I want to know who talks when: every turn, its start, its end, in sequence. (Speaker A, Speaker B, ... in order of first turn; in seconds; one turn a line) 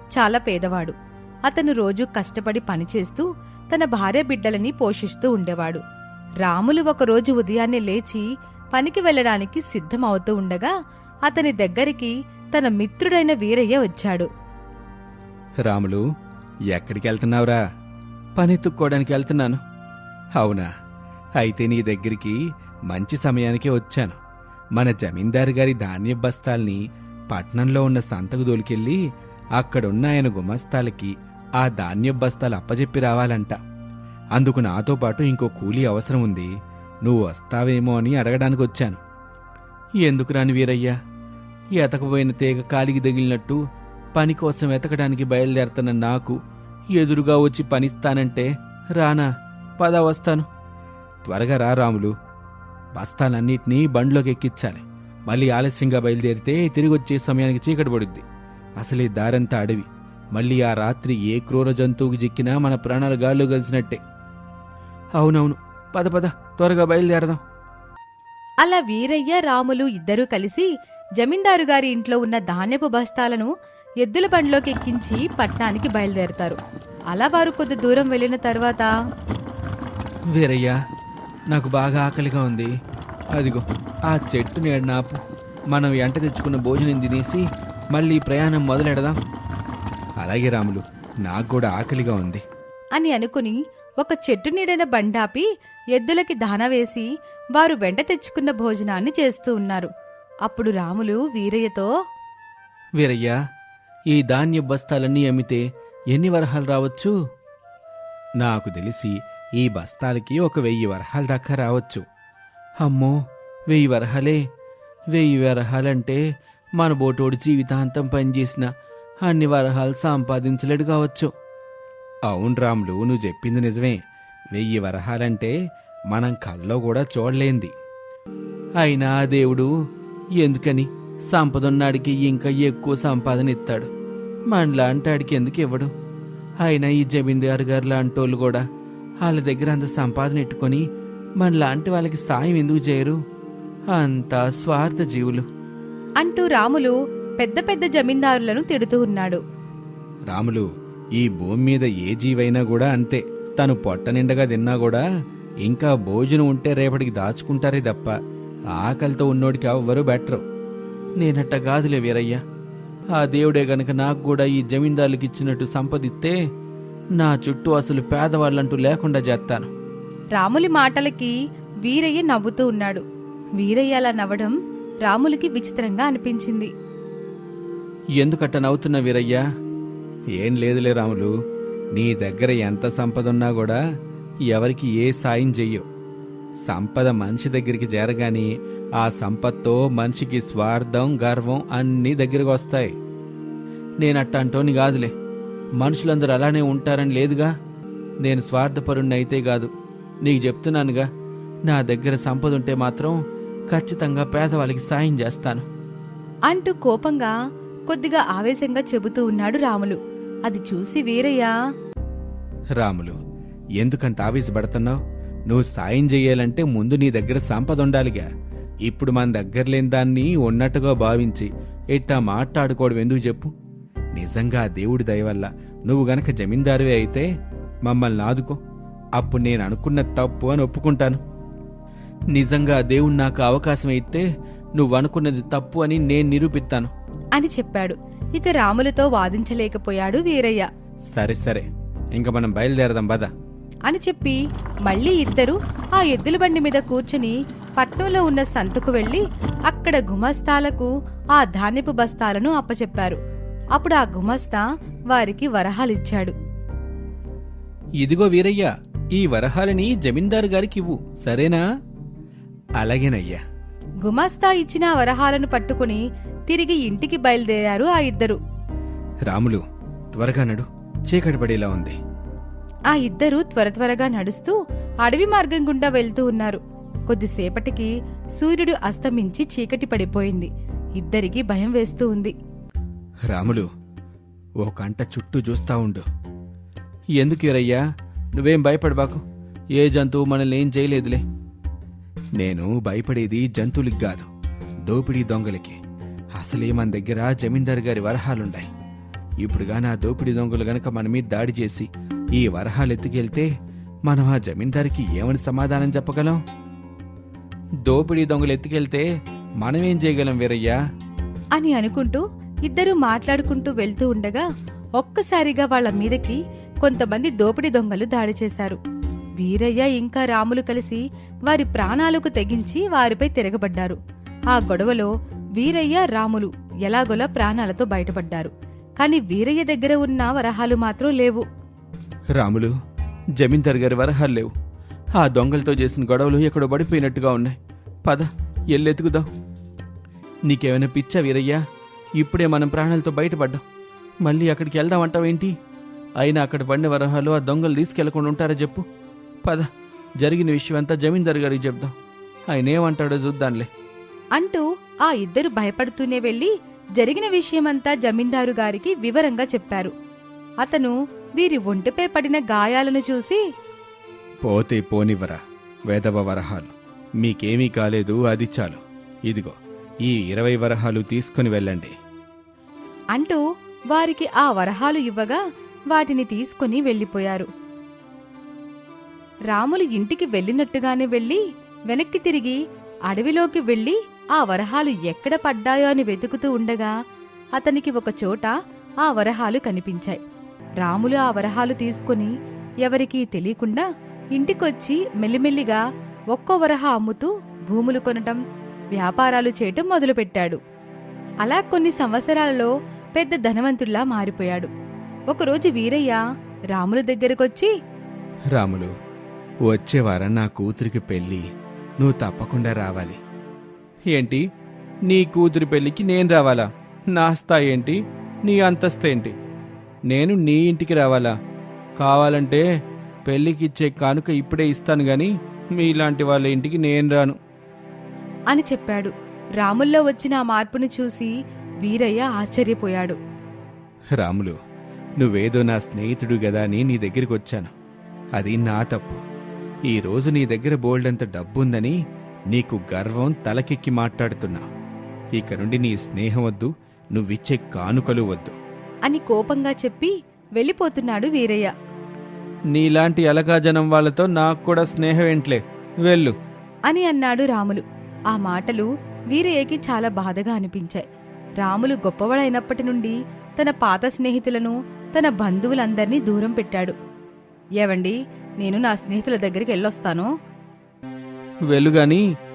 Speaker A: 0.1-0.9
Speaker A: 1.5-5.8
Speaker A: 6.4-8.2
Speaker A: 8.7-10.7
Speaker A: 11.3-14.3
Speaker B: 15.6-16.0
Speaker B: 16.7-17.6
Speaker B: 18.4-19.6
Speaker B: 20.4-20.7
Speaker B: 21.4-22.4
Speaker B: 22.9-24.2
Speaker B: 24.8-29.0
Speaker B: 29.6-33.6
Speaker B: 34.3-36.5
Speaker B: 37.0-39.0
Speaker B: 40.0-40.9
Speaker B: 41.7-43.6
Speaker B: 44.1-46.4
Speaker B: 46.9-49.3
Speaker B: 49.8-50.5
Speaker B: 51.3-52.1
Speaker B: 52.9-58.2
Speaker B: 58.8-64.0
Speaker B: 65.2-67.4
Speaker A: 68.6-70.7
Speaker A: 71.2-73.5
Speaker A: 74.0-76.6
Speaker A: 77.1-78.9
Speaker B: 80.3-80.8
Speaker B: 81.5-82.7
Speaker B: 83.3-85.2
Speaker B: 85.7-89.2
Speaker B: 90.2-92.4
Speaker A: 93.0-99.9
Speaker A: 100.5-101.9
Speaker B: 103.0-103.4
Speaker B: 104.1-107.1
Speaker B: 108.4-112.0
Speaker B: 112.8-113.2
Speaker B: 113.7-114.4
Speaker B: 115.1-116.2
Speaker B: 116.8-118.7
Speaker B: 119.2-121.3
Speaker B: 122.3-124.0
Speaker B: 124.5-125.5
Speaker B: 126.1-127.7
Speaker B: 128.8-129.7
Speaker B: 130.4-133.9
Speaker B: 134.5-135.9
Speaker B: 136.6-138.6
Speaker B: 139.2-140.8
Speaker B: 141.4-143.2
Speaker B: 143.9-145.4
Speaker A: 146.2-149.4
Speaker B: 150.3-150.6
Speaker B: 151.2-155.0
Speaker B: 155.6-158.1
Speaker B: 158.8-160.4
Speaker B: 161.2-162.4
Speaker B: 163.1-166.3
Speaker B: 167.2-169.7
Speaker A: 170.3-173.0
Speaker A: 173.6-176.7
Speaker B: 178.2-179.4
Speaker B: 180.3-181.3
Speaker B: 181.9-183.8
Speaker B: 184.5-185.8
Speaker B: 186.6-188.5
Speaker B: 189.0-192.9
Speaker B: 194.0-195.1
Speaker B: 195.8-197.5
Speaker B: 198.2-199.7
Speaker B: 200.2-201.1
Speaker B: 201.7-203.2
Speaker B: 203.7-205.7
Speaker A: 206.5-207.3
Speaker A: 207.9-211.5
Speaker B: 212.8-213.2
Speaker B: 213.8-218.2
Speaker B: 218.8-223.5
Speaker B: 224.1-227.3
Speaker B: 227.8-228.6
Speaker B: 229.2-231.2
Speaker B: 232.3-234.2
Speaker B: 234.8-236.9
Speaker A: 237.3-240.6
Speaker B: 241.1-243.3
Speaker A: 243.9-253.2
Speaker A: 253.7-256.3
Speaker B: 258.0-261.6
Speaker B: 262.8-263.4
Speaker A: 264.0-268.4
Speaker B: 269.3-269.6
Speaker B: 270.1-272.0
Speaker A: 272.9-282.3
Speaker B: 283.3-283.7
Speaker B: 284.6-286.0
Speaker B: 287.2-287.8
Speaker B: 288.4-289.2
Speaker B: 289.7-291.2
Speaker B: 292.4-294.3
Speaker B: 294.9-295.8
Speaker B: 296.3-298.7
Speaker B: 299.4-303.5
Speaker B: 304.1-306.4
Speaker B: 307.8-309.1
Speaker B: 309.6-310.8
Speaker A: 311.6-314.4
Speaker A: 315.0-318.8
Speaker A: 319.4-324.0
Speaker A: 324.5-331.4
Speaker B: 332.4-332.7
Speaker B: 333.4-334.5
Speaker B: 335.1-339.3
Speaker B: 340.4-341.6
Speaker B: 342.2-343.6
Speaker B: 344.2-345.5
Speaker B: 346.2-348.8
Speaker B: 349.4-349.7
Speaker B: 350.2-351.9
Speaker B: 352.5-353.7
Speaker A: 354.4-359.9
Speaker A: 360.6-363.4
Speaker B: 364.4-371.9
Speaker A: 373.1-373.4
Speaker A: 373.9-375.4
Speaker A: 375.9-377.5
Speaker A: 379.5-386.9
Speaker A: 387.6-388.5
Speaker A: 389.0-390.2
Speaker A: 390.8-392.3
Speaker A: 392.8-395.8
Speaker A: 396.3-398.4
Speaker A: 398.9-400.6
Speaker A: 401.4-404.7
Speaker A: 405.3-406.2
Speaker A: 406.7-407.7
Speaker B: 408.5-408.9
Speaker B: 409.6-411.4
Speaker B: 412.0-413.2
Speaker B: 414.1-414.4
Speaker B: 415.1-419.4
Speaker B: 420.1-421.3
Speaker B: 422.0-422.6
Speaker B: 423.2-427.4
Speaker A: 428.5-431.3
Speaker A: 431.8-433.2
Speaker B: 434.2-434.5
Speaker B: 435.2-437.7
Speaker B: 438.4-439.2
Speaker B: 439.9-442.0
Speaker B: 442.5-444.6
Speaker B: 445.3-448.6
Speaker A: 449.1-451.7
Speaker B: 452.7-456.3
Speaker A: 456.9-461.0
Speaker A: 461.6-466.9
Speaker A: 467.8-470.3
Speaker B: 471.7-472.2